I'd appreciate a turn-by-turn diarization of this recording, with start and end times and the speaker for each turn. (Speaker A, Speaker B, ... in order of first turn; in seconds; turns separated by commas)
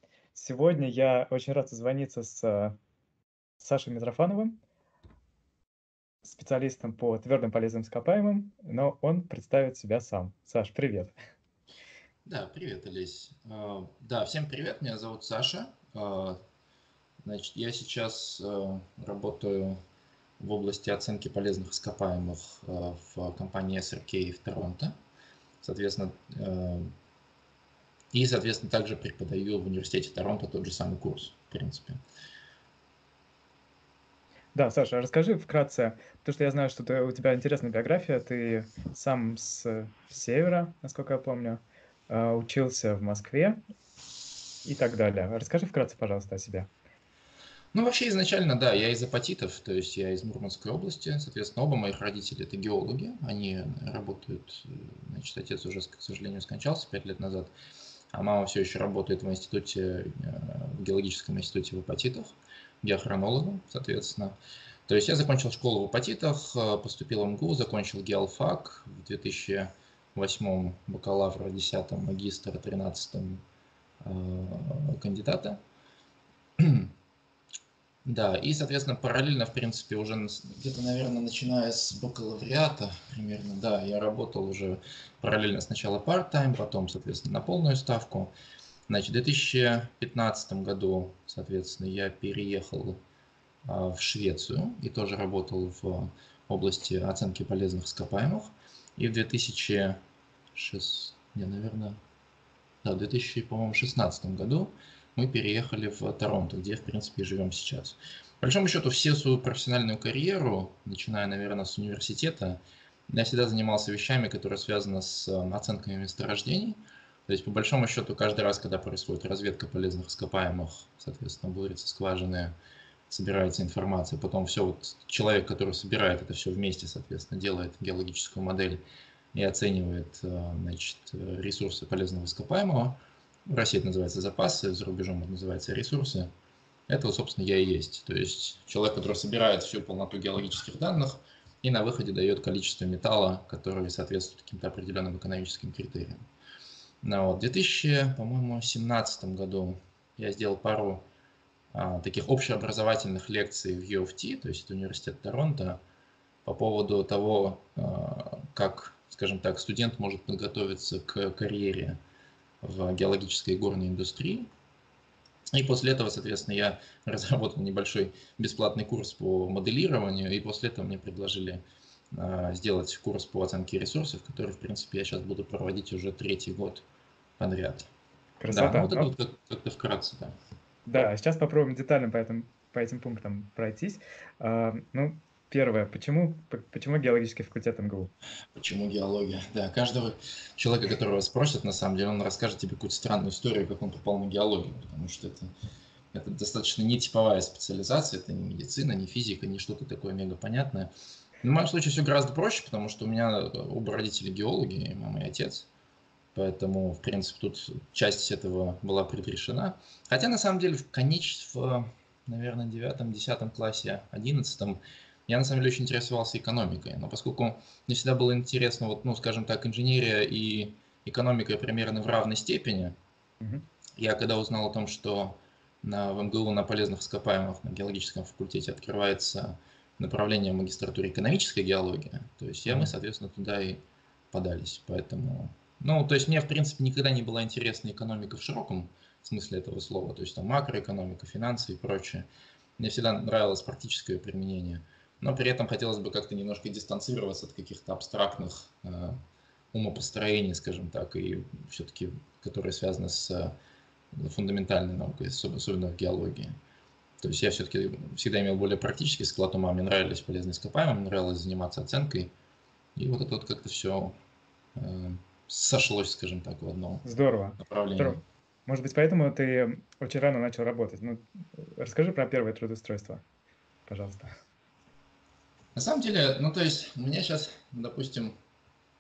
Speaker A: 0.3-2.8, Speaker A: 3.6-4.6, Speaker A: 6.2-11.1, Speaker B: 12.2-16.4, Speaker B: 17.2-19.8, Speaker B: 20.4-24.9, Speaker B: 25.6-26.9, Speaker B: 28.1-32.0, Speaker A: 34.5-43.6, Speaker A: 44.6-46.7, Speaker B: 47.7-57.5, Speaker B: 58.1-64.4, Speaker B: 64.9-73.4, Speaker B: 74.0-75.6, Speaker B: 76.6-76.9, Speaker B: 78.1-88.3, Speaker B: 88.9-93.0, Speaker B: 93.7-100.0, Speaker B: 100.5-102.0, Speaker B: 102.8-122.5, Speaker B: 123.1-128.8, Speaker B: 129.3-136.3, Speaker B: 136.9-146.2, Speaker B: 147.0-151.0, Speaker B: 151.7-155.8, Speaker B: 156.4-162.0, Speaker B: 162.6-164.5, Speaker B: 165.5-176.8, Speaker B: 177.4-177.9, Speaker A: 178.4-179.1, Speaker B: 178.5-180.3, Speaker A: 180.9-188.1, Speaker B: 188.6-195.5, Speaker B: 196.1-200.9, Speaker B: 201.4-205.7, Speaker B: 206.3-222.9, Speaker B: 224.0-233.8, Speaker A: 232.7-232.9, Speaker B: 234.3-242.3, Speaker B: 242.8-249.2, Speaker B: 249.7-253.5, Speaker B: 254.2-256.6, Speaker B: 257.2-262.3, Speaker B: 263.0-264.1, Speaker B: 264.8-267.1, Speaker A: 267.0-273.2, Speaker B: 267.6-268.2, Speaker A: 273.9-274.3, Speaker B: 275.8-278.3